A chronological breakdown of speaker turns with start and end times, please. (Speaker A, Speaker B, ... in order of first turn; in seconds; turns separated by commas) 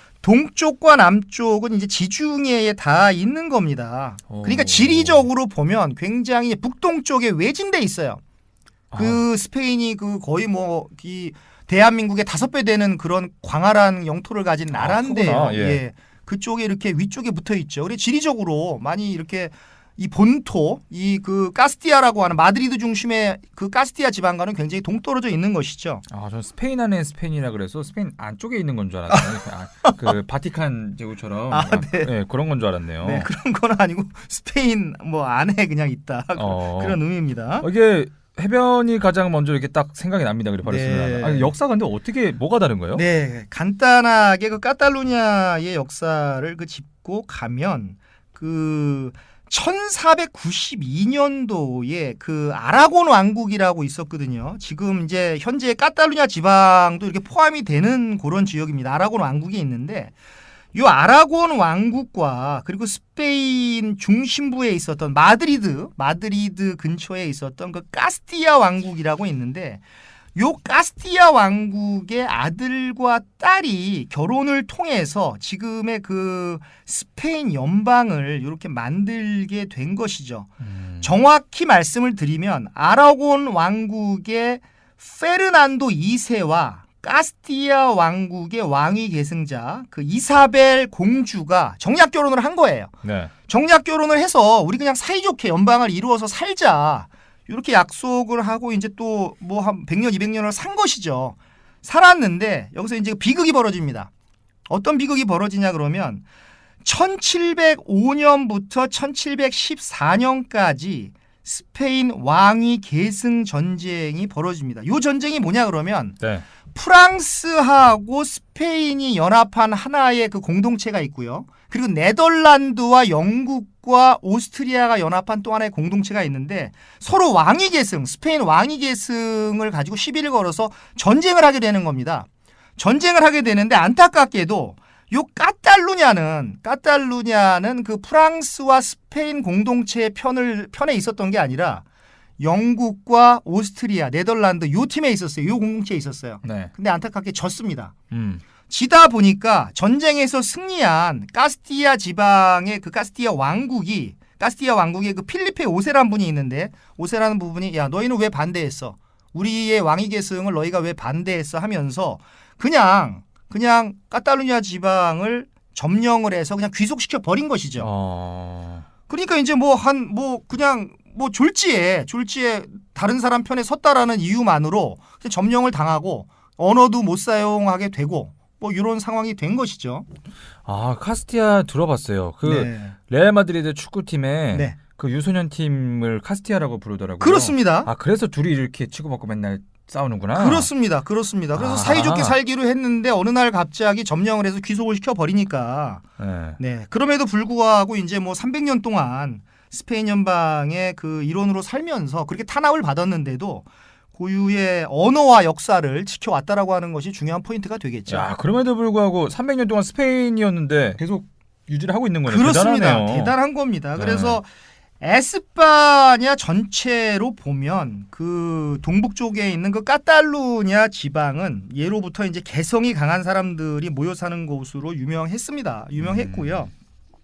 Speaker A: 0.2-8.2, Speaker B: 4.3-5.3, Speaker B: 8.9-9.2, Speaker A: 9.0-26.0, Speaker B: 14.7-15.8, Speaker B: 26.1-33.3, Speaker A: 29.1-30.1, Speaker A: 31.5-32.1, Speaker A: 33.0-37.7, Speaker B: 36.4-37.0, Speaker B: 37.6-43.0, Speaker A: 40.6-41.5, Speaker A: 42.9-60.1, Speaker A: 60.7-69.8, Speaker A: 70.3-80.5, Speaker B: 80.6-81.2, Speaker A: 81.0-92.9, Speaker B: 93.0-93.3, Speaker A: 93.5-104.1, Speaker A: 104.7-106.2, Speaker A: 106.8-116.2, Speaker A: 116.7-141.8, Speaker A: 142.4-147.9, Speaker B: 146.4-146.7, Speaker B: 148.1-148.4, Speaker A: 148.7-167.9, Speaker B: 167.8-168.9, Speaker A: 169.1-180.1, Speaker B: 180.7-190.7, Speaker A: 182.4-183.0, Speaker A: 187.2-187.9, Speaker A: 190.3-196.0, Speaker B: 191.6-192.3, Speaker B: 196.2-196.6, Speaker A: 196.6-208.3, Speaker B: 208.1-213.3, Speaker A: 212.3-214.5, Speaker B: 214.0-214.4, Speaker A: 215.0-226.7, Speaker B: 226.0-226.7